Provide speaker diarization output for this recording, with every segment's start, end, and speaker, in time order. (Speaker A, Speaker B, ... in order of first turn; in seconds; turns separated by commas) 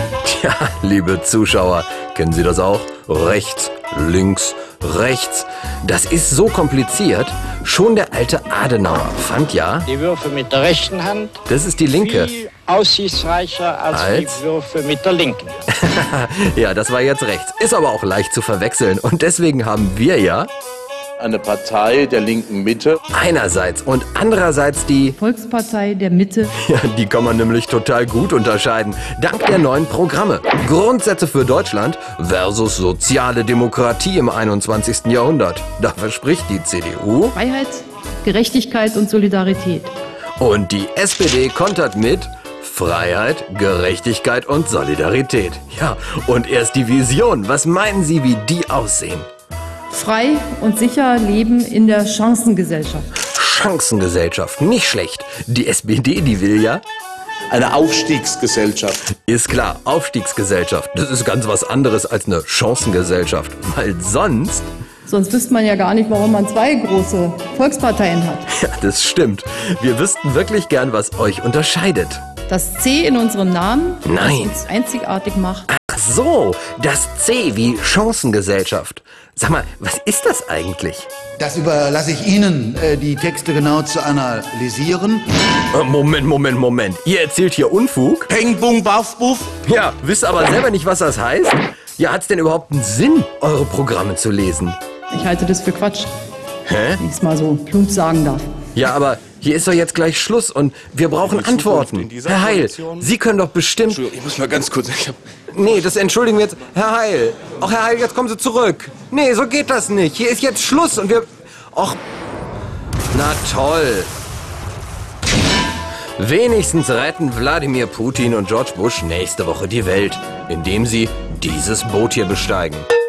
Speaker A: 0.2-9.9, Speaker B: 9.8-15.6, Speaker A: 11.5-12.3, Speaker A: 13.9-14.4, Speaker A: 15.7-20.5, Speaker C: 21.2-23.0, Speaker A: 23.1-25.2, Speaker D: 25.2-26.5, Speaker A: 26.6-37.3, Speaker D: 37.3-39.9, Speaker A: 40.4-49.3, Speaker D: 49.9-53.1, Speaker A: 53.3-56.8, Speaker C: 57.5-59.0, Speaker A: 59.2-64.7, Speaker D: 65.0-68.5, Speaker A: 68.5-72.2, Speaker D: 72.5-75.7, Speaker A: 74.0-74.6, Speaker A: 75.7-81.1, Speaker E: 81.4-85.2, Speaker A: 85.7-88.3, Speaker C: 88.3-89.5, Speaker A: 89.6-94.8, Speaker D: 95.1-96.1, Speaker A: 96.7-97.0, Speaker D: 97.0-98.5, Speaker A: 98.7-104.2, Speaker C: 101.2-103.1, Speaker C: 104.7-105.1, Speaker A: 105.5-112.0, Speaker A: 113.1-114.1, Speaker A: 116.2-122.9